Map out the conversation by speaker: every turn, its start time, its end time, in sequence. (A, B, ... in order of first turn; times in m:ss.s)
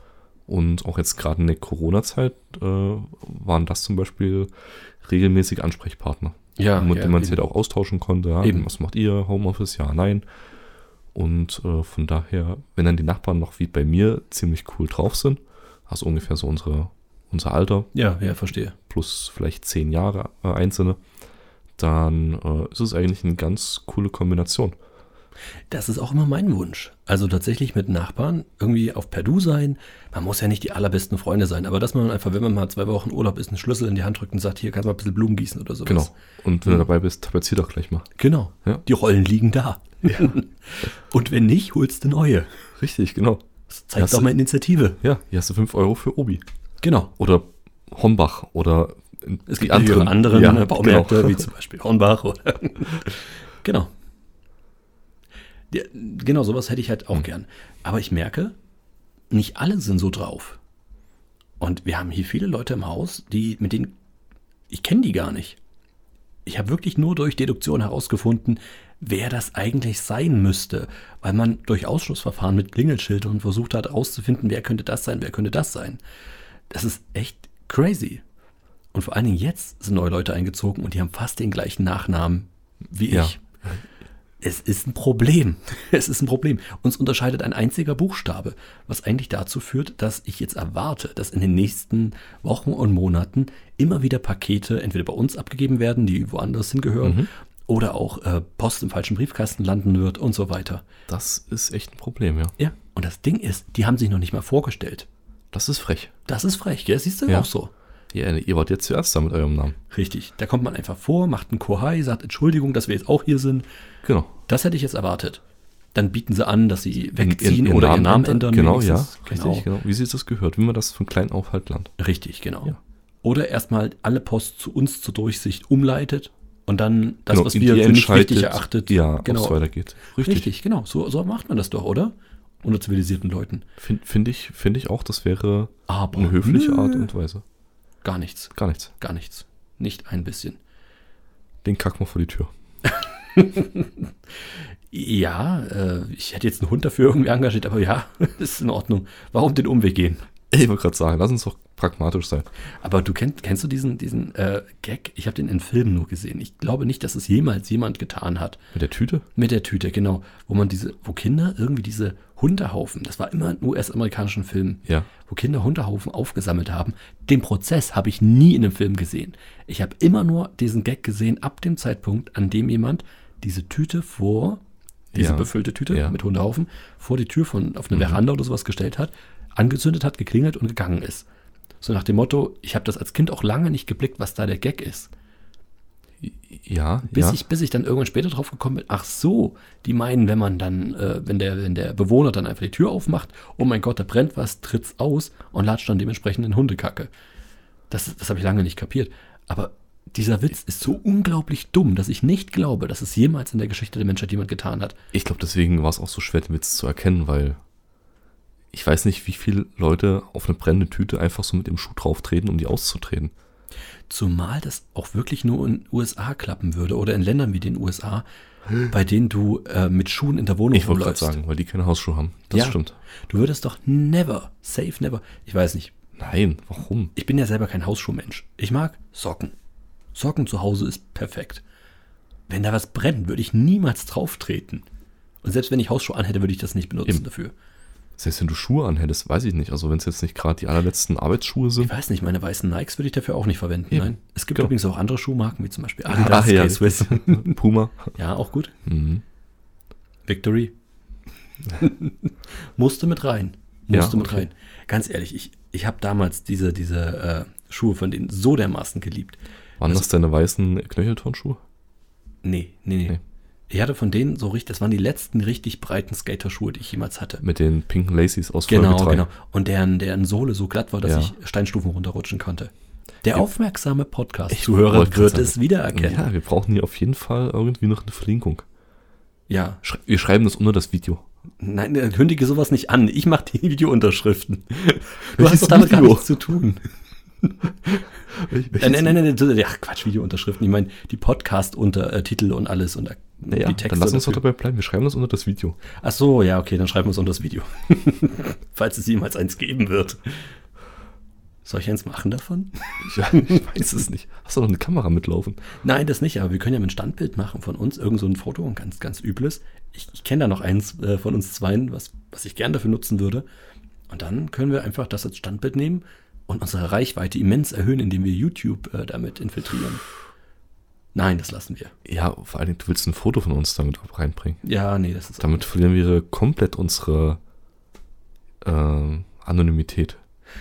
0:00.5-0:10.2 A
0:06.6-0:07.4 B
0:11.1-0:17.9 A
0:17.9-0:18.8 B
0:18.9-0:21.0 A
0:21.8-0:24.8 A
0:25.7-0:36.1 B
0:35.8-0:38.1 A
0:38.2-0:42.5 B
0:42.8-0:43.4 A
0:43.7-0:45.0 B
0:44.0-0:44.3 A
0:45.0-0:46.4 A
0:46.8-0:47.1 B
0:47.2-0:51.4 A
0:49.5-0:53.9 B
0:55.7-0:58.6 B
0:59.3-1:00.6 B
1:01.6-1:03.9 B
1:04.7-1:05.6 B
1:06.4-1:16.0 B
1:16.7-1:18.2 B
1:18.9-1:23.4 B
1:23.1-1:23.3 A
1:24.4-1:40.8 B
1:37.0-1:37.3 A
1:41.1-1:42.5 A
1:42.6-1:45.1 B
1:45.5-1:46.1 A
1:46.2-1:47.7 B
1:48.1-1:49.8 A
1:49.9-1:53.6 B
1:54.0-1:54.3 A
1:54.5-1:55.4 B
1:55.9-1:59.6 B
1:57.2-2:01.9 A
2:02.0-2:09.6 B
2:07.3-2:10.5 A
2:10.1-2:13.6 B
2:13.8-2:17.4 A
2:15.9-2:17.1 B
2:18.0-2:20.6 B
2:18.5-2:18.9 A
2:21.6-2:22.5 A
2:22.8-2:24.0 B
2:24.9-2:30.2 B
2:30.5-2:32.5 A
2:32.8-2:38.6 B
2:38.7-2:39.2 A
2:39.3-2:54.6 B
2:55.1-2:56.1 A
2:55.1-3:01.3 B
2:57.9-2:58.2 A
3:01.8-3:05.1 B
3:06.2-3:07.4 A
3:07.1-3:17.1 B
3:17.9-3:25.0 B
3:25.1-3:27.6 A
3:28.7-3:33.3 A
3:34.1-3:38.2 B
3:38.8-3:41.3 B
3:40.7-3:43.0 A
3:42.5-3:42.8 B
3:43.3-3:45.9 B
3:46.2-3:47.1 A
3:47.1-3:49.5 B
3:50.1-3:51.6 B
3:52.5-3:54.8 B
3:55.4-3:57.5 B
3:58.2-4:01.9 A
4:01.8-4:07.6 B
4:03.9-4:04.7 A
4:06.1-4:08.1 A
4:08.1-4:08.7 B
4:08.8-4:09.2 A
4:10.2-4:10.7 B
4:11.7-4:20.1 B
4:13.9-4:14.5 A
4:19.8-4:21.6 A
4:22.4-4:23.2 B
4:23.7-4:27.4 B
4:27.4-4:29.2 A
4:28.7-4:32.7 B
4:31.0-4:31.3 A
4:33.2-4:36.2 B
4:34.5-4:38.6 A
4:39.5-4:39.8 B
4:39.8-4:41.2 A
4:41.6-4:46.8 B
4:45.4-4:46.3 A
4:48.3-4:49.2 A
4:48.7-4:54.4 B
4:53.5-4:55.8 A
4:55.9-5:00.5 B
5:01.6-5:03.9 B
5:03.0-5:05.6 A
5:05.8-5:13.4 B
5:14.1-5:20.0 B
5:21.1-5:21.9 B
5:22.0-5:24.6 A
5:24.6-5:25.6 B
5:25.4-5:27.4 A
5:28.6-5:30.2 A